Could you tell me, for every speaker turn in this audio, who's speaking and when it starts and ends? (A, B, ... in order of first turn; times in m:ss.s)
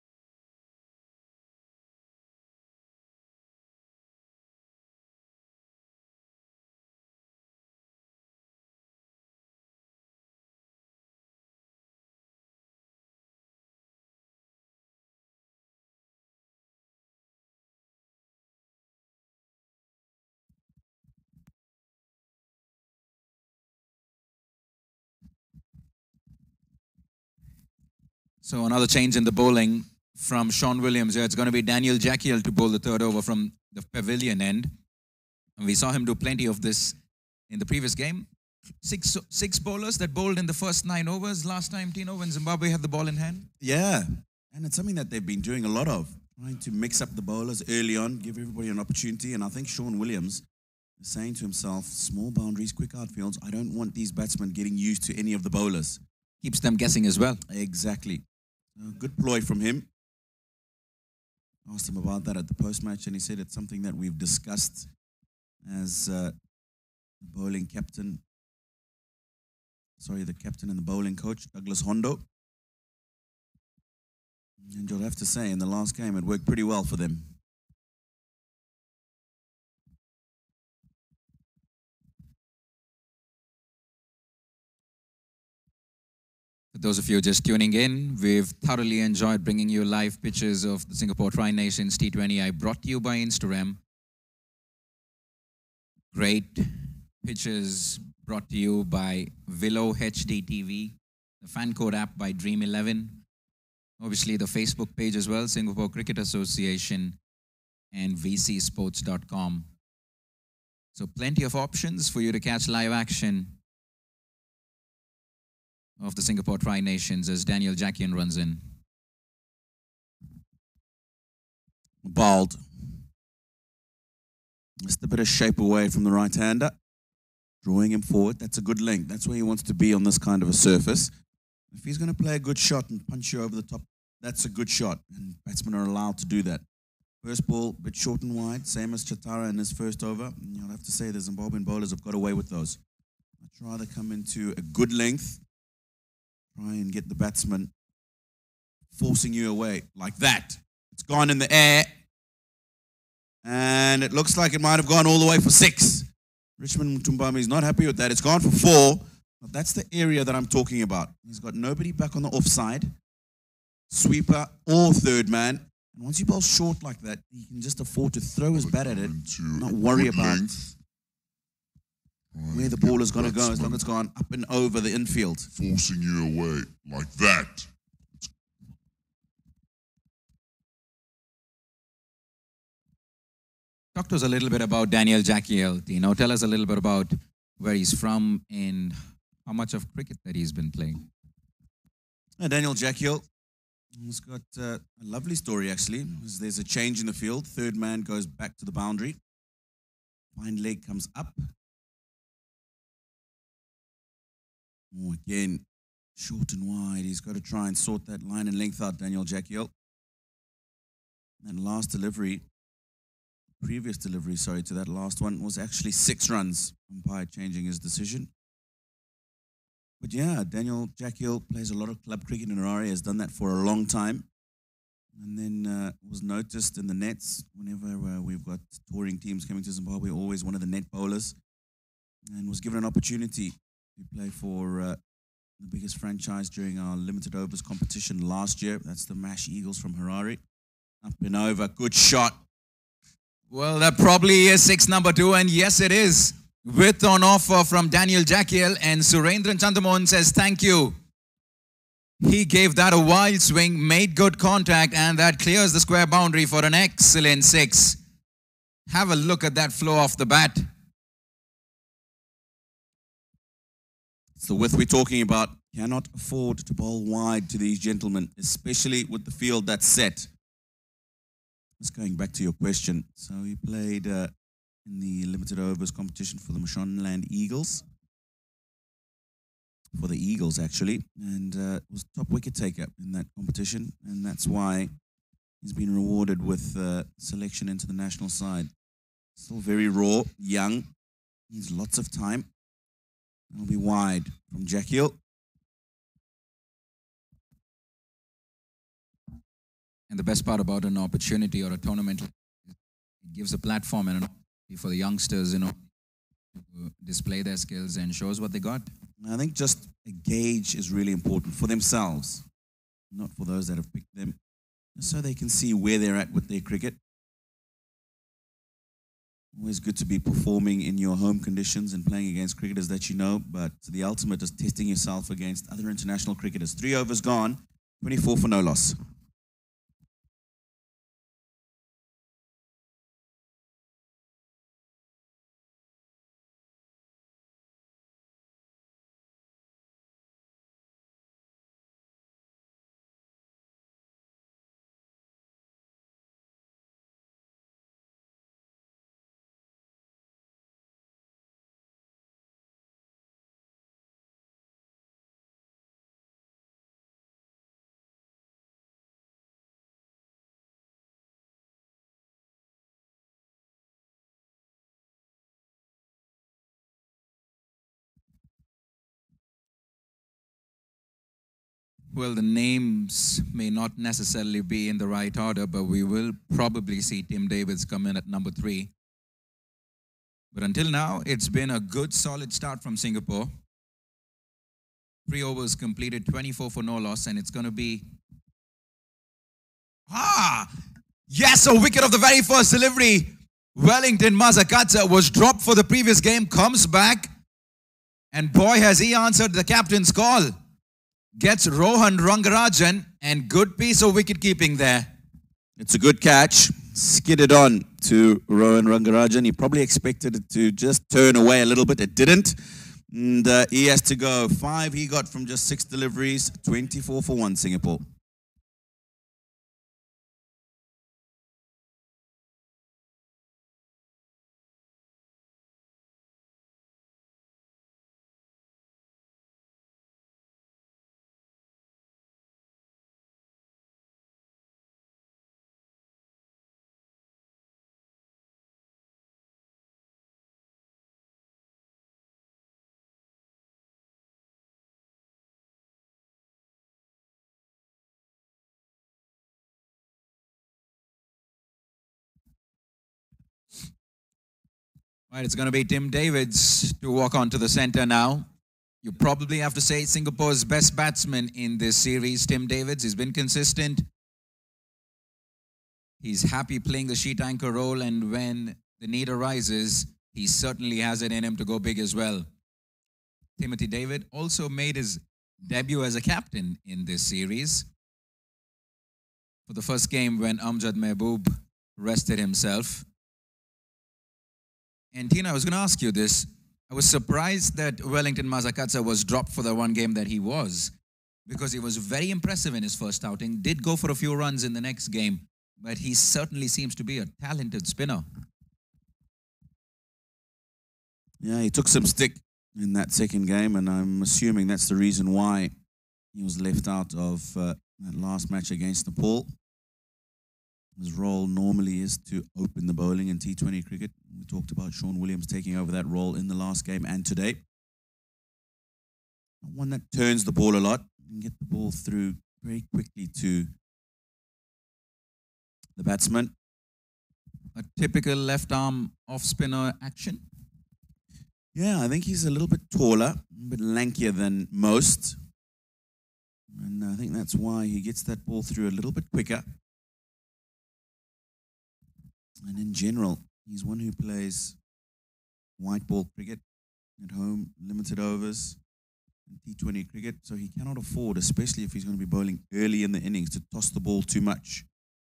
0:28.4-0:34.7 A
0:35.6-0:36.9 A
0:37.5-0:38.3 A
0:38.8-0:43.5 A
0:43.6-0:50.4 B
0:51.0-0:56.0 B
0:56.4-0:57.4 A
0:57.5-0:58.2 B
0:58.8-0:59.9 B
1:01.6-1:04.9 B
1:05.6-1:06.3 B
1:07.2-1:08.2 B
1:10.0-1:12.2 B
1:14.6-1:17.3 B
1:26.7-1:33.8 A
1:36.1-1:36.7 A
1:37.2-1:43.2 A
1:44.0-1:47.2 A
1:47.9-1:49.7 A
1:50.9-1:53.5 A
1:56.0-1:58.6 A
2:02.0-2:02.6 B
2:04.8-2:06.8 B
2:07.6-2:11.1 B
2:11.7-2:16.6 B
2:17.2-2:22.8 B
2:23.4-2:25.4 B
2:26.5-2:27.7 B
2:28.9-2:31.9 B
2:33.4-2:36.1 B
2:36.6-2:42.9 B
2:43.9-2:50.6 B
2:48.5-2:50.7 C
2:52.3-2:53.8 C
2:52.5-2:55.5 B
2:55.5-2:57.7 C
3:03.9-3:11.0 A
3:12.4-3:13.2 B
3:13.9-3:19.2 B
3:20.4-3:21.5 B
3:24.9-3:25.6 B
3:26.2-3:29.7 B
3:31.4-3:32.4 B
3:33.6-3:38.3 B
3:40.0-3:44.2 B
3:45.2-3:51.4 B
3:52.3-3:55.0 B
3:55.6-4:00.4 B
4:01.0-4:02.4 B
4:03.5-4:11.0 A
4:12.2-4:18.0 A
4:18.9-4:20.7 A
4:24.4-4:30.3 B
4:31.8-4:34.3 B
4:34.8-4:37.8 B
4:40.0-4:44.9 B
4:45.6-4:48.7 B
4:49.4-4:50.9 B
4:51.5-4:52.5 B
4:53.5-4:55.2 B
5:00.1-5:02.3 A
5:03.2-5:05.8 A
5:06.6-5:08.9 A
5:09.2-5:12.4 B
5:13.1-5:14.4 B
5:15.0-5:17.0 B
5:19.5-5:29.0 B
6:12.1-6:18.9 A
6:20.5-6:23.5 A
6:25.3-6:28.0 A
6:30.1-6:30.7 A
6:31.3-6:37.3 A
6:38.3-6:40.5 A
6:41.4-6:45.1 A
6:45.8-6:58.0 B
7:35.3-7:38.4 A
7:39.0-7:44.0 A
7:46.2-7:52.5 A
7:53.6-7:57.9 A
7:59.7-8:03.0 A
8:05.1-8:10.9 A
8:11.5-8:18.2 A
8:21.4-8:25.7 B
8:26.3-8:29.5 B
8:31.0-8:37.6 B
8:39.6-8:43.7 B
8:46.0-8:46.5 B
8:47.7-8:50.4 A
8:51.7-8:55.4 B
8:56.7-8:59.6 B
9:02.6-9:04.8 B
9:05.8-9:06.6 B
9:07.2-9:08.8 B
9:09.5-9:14.8 B